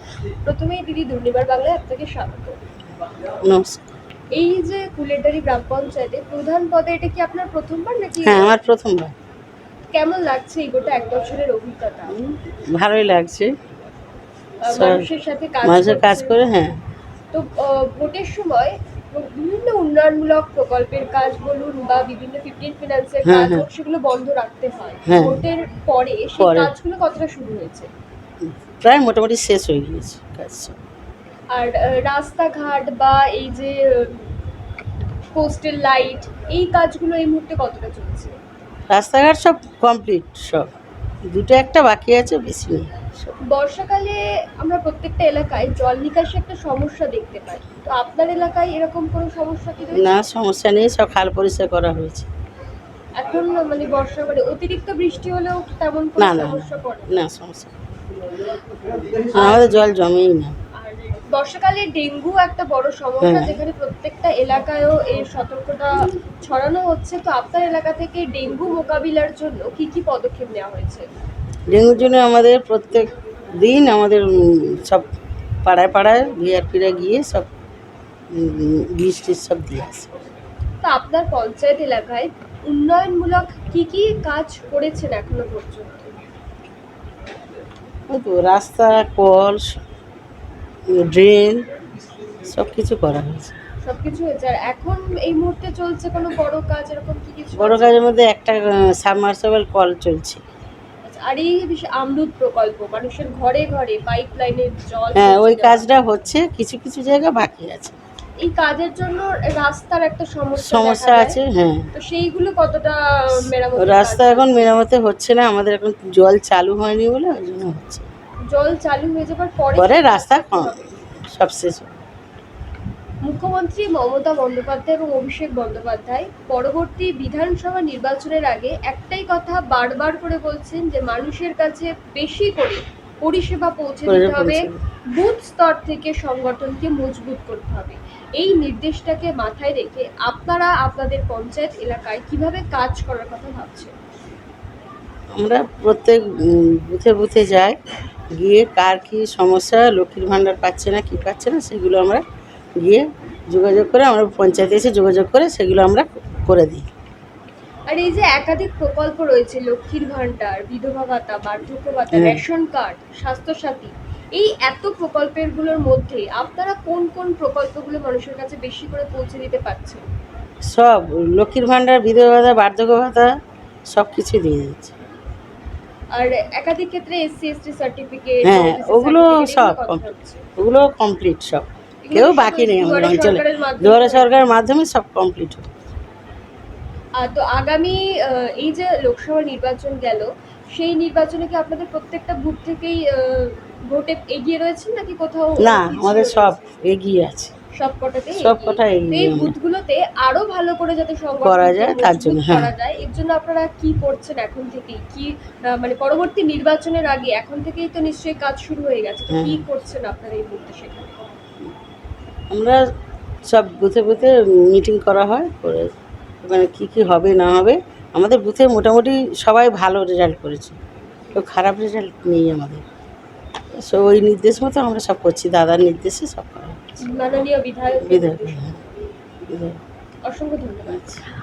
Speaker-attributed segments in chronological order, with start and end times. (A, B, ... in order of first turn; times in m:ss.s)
0:00.4-0:02.6 A
0:03.4-0:03.8 B
0:04.3-0:08.6 A
0:08.2-0:09.2 B
0:09.9-0:12.2 A
0:12.1-0:13.6 B
0:14.6-0:16.4 A
0:14.7-0:15.1 B
0:15.6-0:16.8 B
0:17.3-0:27.9 A
0:23.2-0:23.7 B
0:25.1-0:25.4 B
0:26.4-0:26.7 B
0:28.4-0:30.8 B
0:31.5-0:34.3 A
0:35.3-0:38.4 A
0:38.9-0:40.7 B
0:41.3-0:43.3 B
0:43.5-0:50.2 A
0:49.9-0:52.3 B
0:53.2-0:57.2 A
0:56.2-0:57.8 B
0:59.3-1:00.5 B
0:59.3-0:59.7 A
1:00.8-1:11.1 A
1:03.2-1:03.6 B
1:11.7-1:15.1 B
1:15.6-1:17.5 B
1:18.3-1:20.1 B
1:20.8-1:26.1 A
1:28.1-1:29.8 B
1:30.9-1:31.7 B
1:32.4-1:33.6 B
1:33.8-1:38.0 A
1:37.6-1:40.4 B
1:41.0-1:45.9 A
1:45.2-1:48.0 B
1:48.4-1:51.4 A
1:50.6-1:51.9 B
1:51.9-1:54.7 A
1:53.8-1:58.1 B
1:58.5-2:00.9 A
1:59.8-2:02.0 B
2:03.2-2:23.9 A
2:14.1-2:14.8 B
2:25.3-2:27.8 B
2:28.3-2:32.2 B
2:32.8-2:36.9 B
2:37.9-2:50.1 A
2:42.1-2:42.4 B
2:50.6-2:53.3 B
2:53.9-2:55.0 B
2:56.1-3:00.5 A
2:58.4-3:05.7 B
3:02.0-3:04.3 A
3:07.2-3:16.6 A
3:15.6-3:17.5 B
3:17.7-3:31.1 A
3:18.3-3:19.6 B
3:21.4-3:22.7 B
3:29.3-3:29.6 B
3:32.5-3:32.8 B
3:33.5-3:35.9 B
3:36.4-3:40.8 B
3:41.3-3:42.8 B
3:43.7-3:47.0 B
3:47.0-3:48.7 A
3:48.0-3:48.8 B
3:49.5-3:49.8 B
3:50.3-3:51.1 A
3:50.9-3:51.2 B